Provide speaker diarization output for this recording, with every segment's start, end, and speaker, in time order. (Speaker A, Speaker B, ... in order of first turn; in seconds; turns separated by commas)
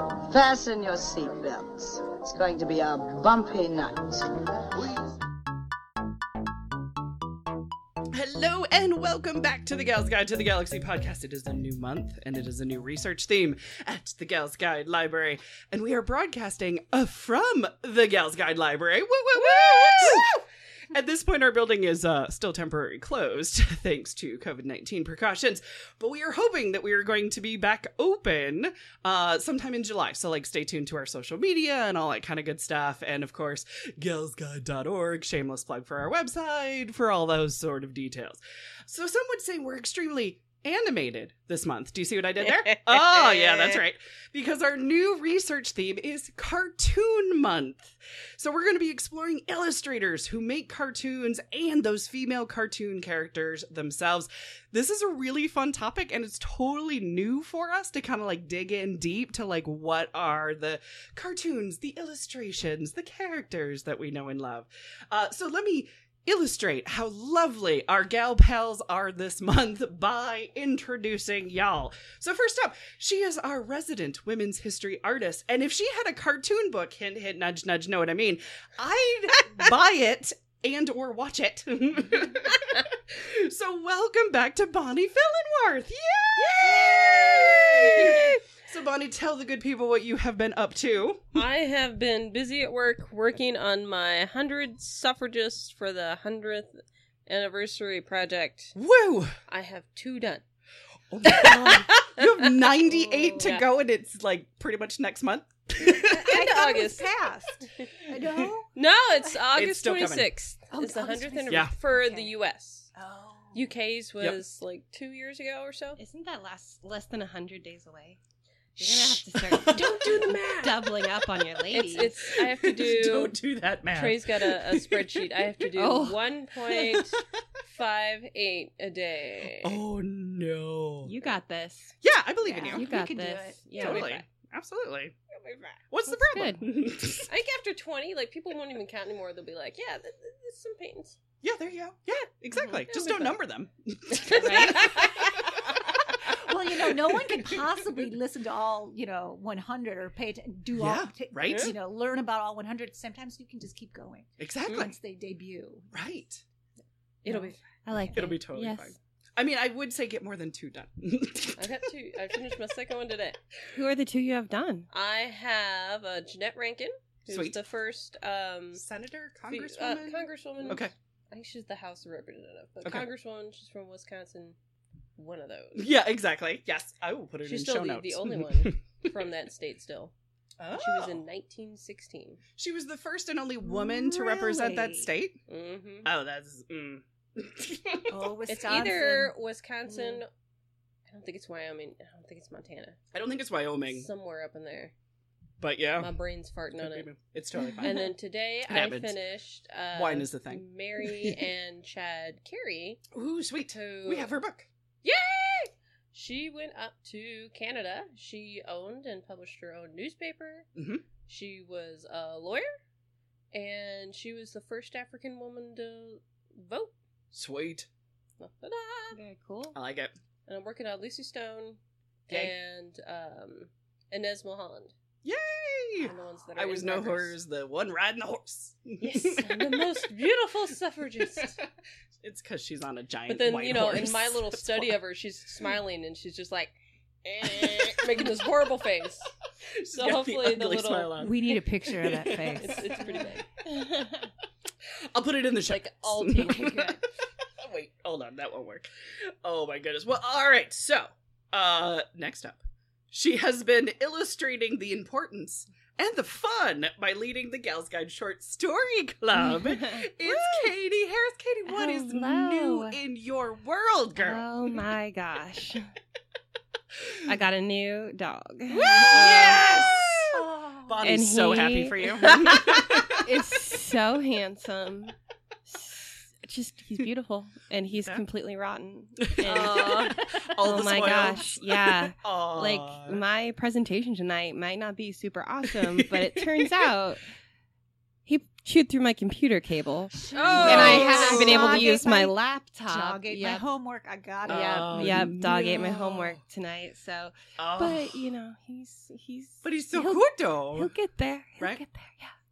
Speaker A: 0.3-5.1, Speaker B: 8.1-91.4, Speaker C: 19.4-20.3, Speaker C: 86.4-88.4, Speaker C: 91.3-98.7, Speaker B: 98.8-99.4, Speaker C: 99.5-100.4, Speaker B: 101.1-106.8, Speaker C: 101.2-103.6, Speaker C: 106.0-107.9, Speaker D: 106.1-108.7, Speaker C: 108.8-112.9, Speaker B: 109.5-110.3, Speaker D: 110.7-112.4, Speaker B: 111.5-111.7, Speaker D: 112.9-113.7, Speaker C: 113.5-116.0, Speaker E: 116.0-118.2, Speaker E: 118.8-122.4, Speaker B: 118.8-121.0, Speaker C: 119.7-120.9, Speaker C: 121.7-123.3, Speaker B: 122.2-125.7, Speaker C: 123.9-129.8, Speaker E: 125.8-126.2, Speaker B: 129.6-131.3, Speaker E: 131.0-131.9, Speaker B: 132.0-132.9, Speaker D: 132.4-133.9, Speaker E: 132.7-134.2, Speaker B: 133.8-135.1, Speaker C: 135.3-135.8, Speaker B: 135.9-137.3, Speaker E: 136.1-136.6, Speaker C: 137.3-141.2, Speaker B: 141.4-147.5, Speaker E: 142.6-142.9, Speaker C: 144.1-145.5, Speaker E: 144.3-145.1, Speaker D: 146.3-155.9, Speaker B: 150.8-151.7, Speaker B: 154.4-154.9, Speaker B: 155.9-156.4, Speaker D: 157.2-158.2, Speaker E: 157.2-158.9, Speaker B: 158.1-162.4, Speaker C: 161.6-163.4, Speaker E: 163.7-164.9, Speaker C: 164.9-168.8, Speaker B: 167.3-167.6, Speaker B: 168.7-170.9, Speaker C: 169.5-174.6, Speaker C: 175.2-175.9, Speaker B: 175.8-179.1, Speaker C: 177.4-180.1, Speaker B: 180.6-181.2, Speaker C: 180.7-182.4, Speaker B: 182.6-185.4, Speaker D: 183.6-185.1, Speaker C: 185.5-186.1, Speaker B: 186.0-188.3, Speaker D: 188.1-189.3, Speaker C: 188.5-190.3, Speaker E: 189.9-190.2, Speaker C: 191.1-193.0, Speaker B: 193.1-194.1, Speaker C: 193.9-194.9, Speaker B: 195.6-196.1, Speaker C: 196.0-197.1, Speaker B: 196.7-198.1, Speaker C: 197.8-203.0, Speaker B: 198.7-199.1, Speaker B: 199.9-201.4, Speaker B: 203.1-204.7, Speaker C: 203.7-204.3, Speaker C: 205.0-210.7, Speaker B: 210.8-211.0, Speaker C: 211.3-212.7, Speaker C: 213.5-216.9, Speaker B: 217.3-217.9, Speaker C: 218.4-219.2, Speaker E: 219.1-219.8, Speaker B: 219.7-220.1, Speaker C: 220.5-224.9, Speaker B: 225.2-230.1, Speaker C: 226.0-227.3, Speaker C: 229.0-231.6, Speaker B: 231.2-231.7, Speaker B: 232.2-235.0, Speaker C: 233.3-239.3, Speaker B: 237.4-238.4, Speaker B: 239.6-243.3, Speaker C: 239.9-241.5, Speaker D: 241.2-242.9, Speaker C: 242.6-243.4, Speaker E: 243.6-244.3, Speaker B: 245.1-252.6, Speaker C: 245.7-246.9, Speaker B: 253.1-264.4, Speaker E: 259.5-260.0, Speaker E: 261.7-263.0, Speaker E: 264.2-265.9, Speaker E: 267.2-269.6, Speaker B: 268.8-273.3, Speaker D: 268.8-269.6, Speaker D: 270.3-271.0, Speaker E: 271.0-275.1, Speaker E: 275.7-287.2, Speaker B: 277.9-278.2, Speaker B: 279.2-283.2, Speaker C: 279.4-280.1, Speaker D: 280.1-280.5, Speaker B: 285.7-286.9, Speaker E: 288.2-293.6, Speaker C: 290.3-291.8, Speaker D: 290.3-295.4, Speaker B: 290.4-291.9, Speaker B: 294.5-296.4, Speaker E: 294.5-302.4, Speaker B: 297.6-298.3, Speaker B: 299.6-300.9